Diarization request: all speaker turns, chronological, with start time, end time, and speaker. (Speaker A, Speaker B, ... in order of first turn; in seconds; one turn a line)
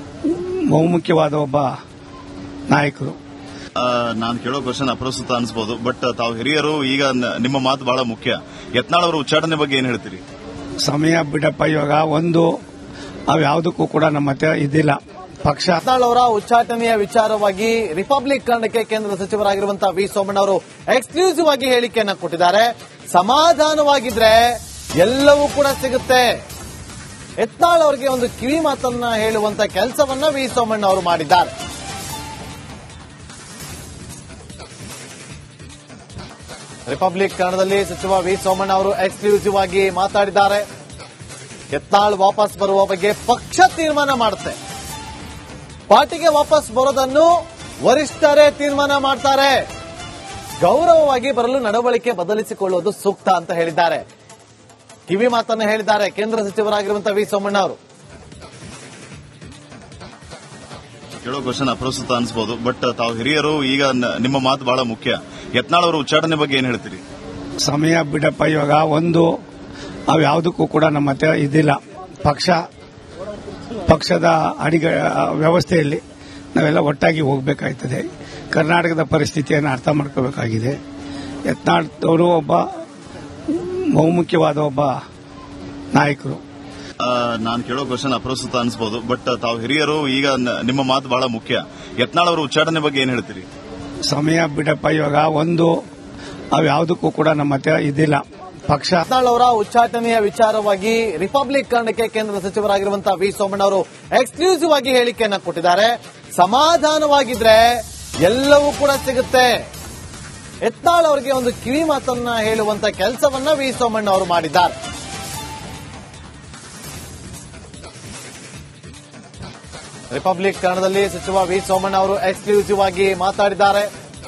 Speaker A: 0.2-1.7
Speaker A: 2.7-3.2
Speaker B: 3.8-10.2
Speaker A: 10.8-12.5
Speaker A: 13.3-15.8
Speaker C: 15.8-26.4
Speaker C: 27.4-31.5
Speaker C: 36.9-40.6
Speaker C: 41.7-44.6
Speaker C: 45.9-47.3
Speaker C: 47.9-49.6
Speaker C: 50.6-54.0
Speaker C: 55.1-57.8
Speaker B: 61.2-67.0
Speaker A: 67.6-69.3
Speaker A: 70.1-72.6
Speaker A: 73.9-76.0
Speaker A: 76.5-80.8
Speaker A: 81.5-82.7
Speaker A: 83.5-85.0
Speaker A: 85.9-86.4
Speaker B: 87.0-93.5
Speaker A: 94.1-95.7
Speaker A: 96.5-99.0
Speaker C: 99.0-109.6
Speaker C: 110.6-114.8
Speaker C: 120.1-123.9